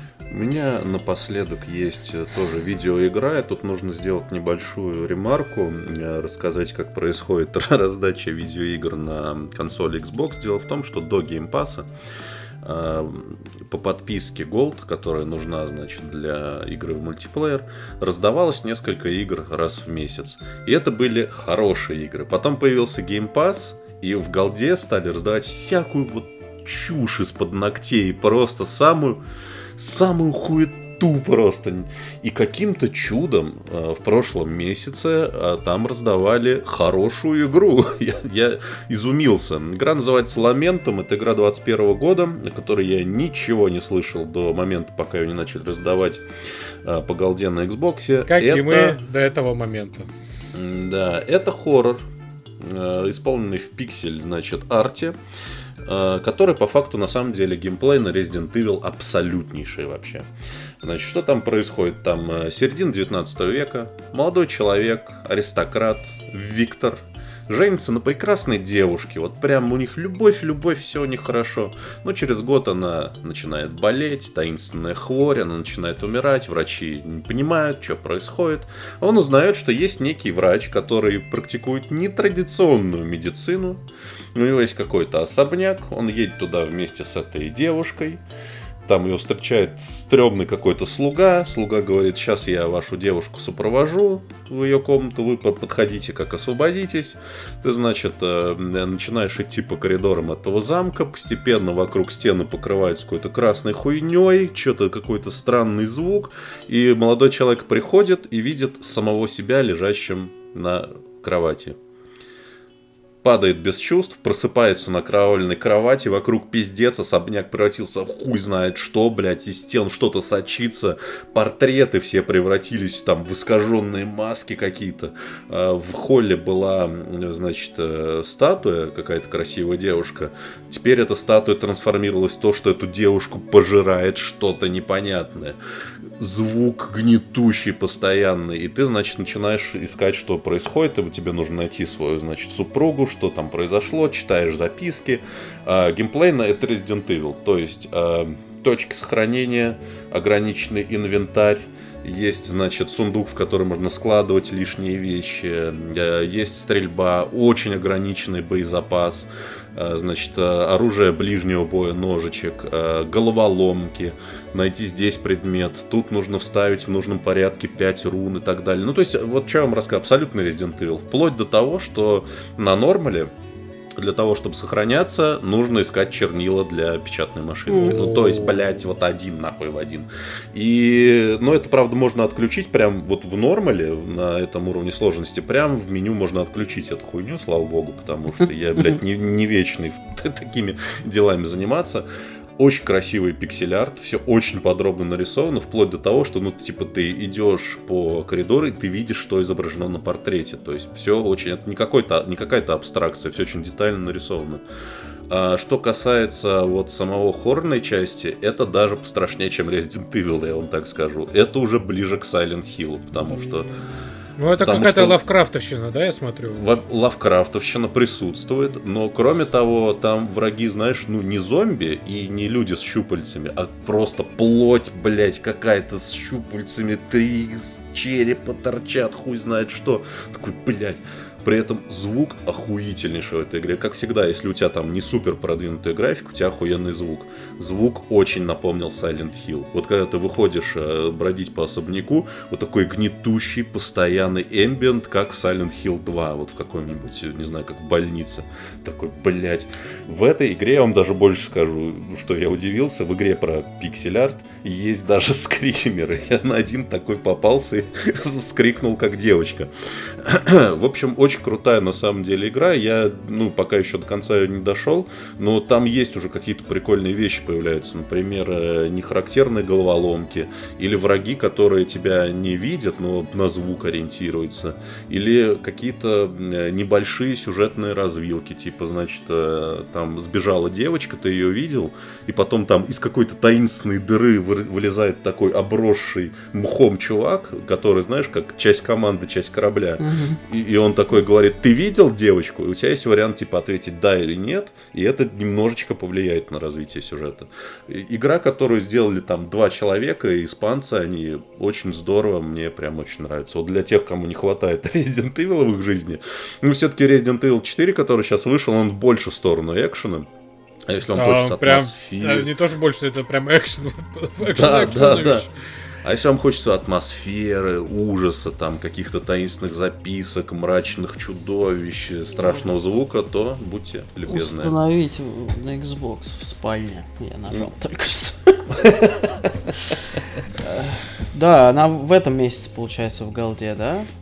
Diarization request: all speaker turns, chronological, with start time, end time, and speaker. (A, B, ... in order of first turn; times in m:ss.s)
0:00.3-0:11.8 A
0:12.6-0:29.2 A
0:29.8-0:46.2 A
0:46.8-0:49.0 A
0:48.2-0:50.1 B
0:50.5-0:52.0 A
0:52.6-0:55.2 A
0:55.8-1:00.3 A
1:00.8-1:23.8 A
1:24.3-1:28.2 A
1:28.8-1:51.8 A
1:53.2-2:15.6 A
2:16.2-2:53.3 A
2:54.0-3:12.0 A
2:57.7-2:58.1 C
2:57.9-2:58.5 B
3:12.6-3:24.6 A
3:25.3-3:33.7 A
3:33.2-3:33.9 C
3:34.4-3:36.6 B
3:34.6-3:35.2 A
3:36.6-4:19.7 A
4:20.2-5:10.3 A
4:50.0-4:50.4 C
5:10.9-5:12.5 A
5:11.1-5:15.5 B
5:14.5-5:15.4 A
5:16.0-5:24.7 A
5:22.4-5:22.7 C
5:24.3-5:28.8 C
5:28.8-5:29.6 A
5:30.5-5:34.1 C